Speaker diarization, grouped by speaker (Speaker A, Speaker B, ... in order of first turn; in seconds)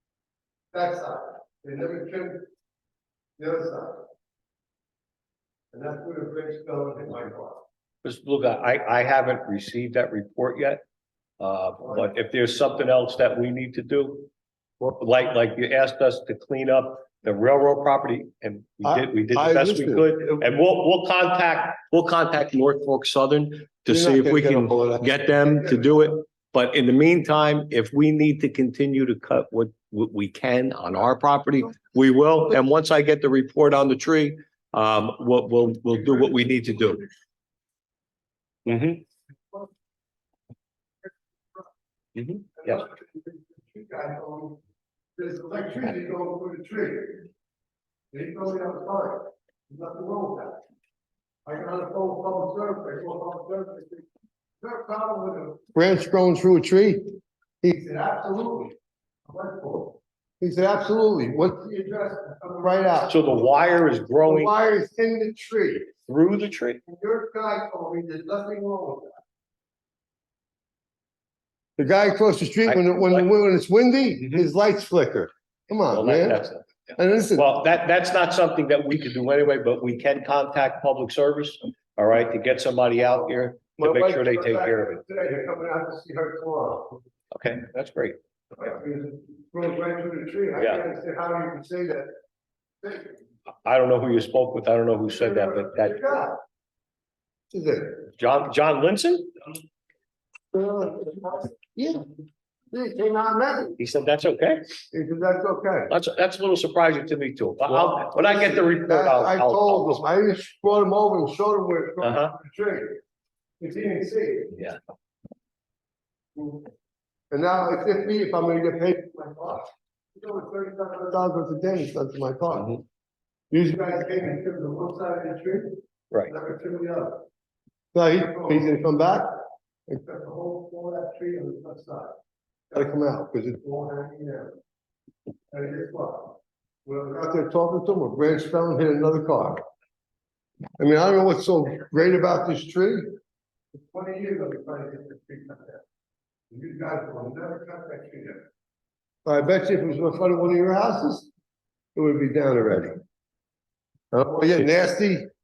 Speaker A: 0.7-2.5, 3.4-4.1, 5.7-7.6, 11.8-12.1, 18.8-20.5, 23.9-26.0, 41.0-41.7, 42.6-44.6, 45.2-47.3, 48.1-50.6, 51.5-54.1, 54.6-57.0, 57.6-58.8, 59.3-63.3, 64.2-65.9, 66.9-69.2, 71.8-76.4, 77.0-77.5, 83.8-87.0, 88.5-92.1, 92.8-93.2, 95.1-96.4, 97.5-98.1, 100.5-102.1, 102.7-103.8, 104.9-105.9, 107.7-113.0, 113.6-114.5, 116.4-116.7, 117.3-122.8, 123.5-127.2, 127.9-132.2, 132.7-134.6, 135.5-139.6, 140.8-143.1, 143.8-145.8, 146.5-148.4, 149.2-151.3, 152.0-152.9, 154.1-155.3
Speaker B: 8.0-10.8, 11.4-14.3, 15.0-37.0, 38.7-39.0, 42.2-42.8, 63.1-64.5, 66.1-66.8, 72.7-73.2, 75.9-85.0, 87.3-88.2, 93.6-96.0, 98.2-99.3, 103.8-104.7, 105.9-110.0, 112.0-112.3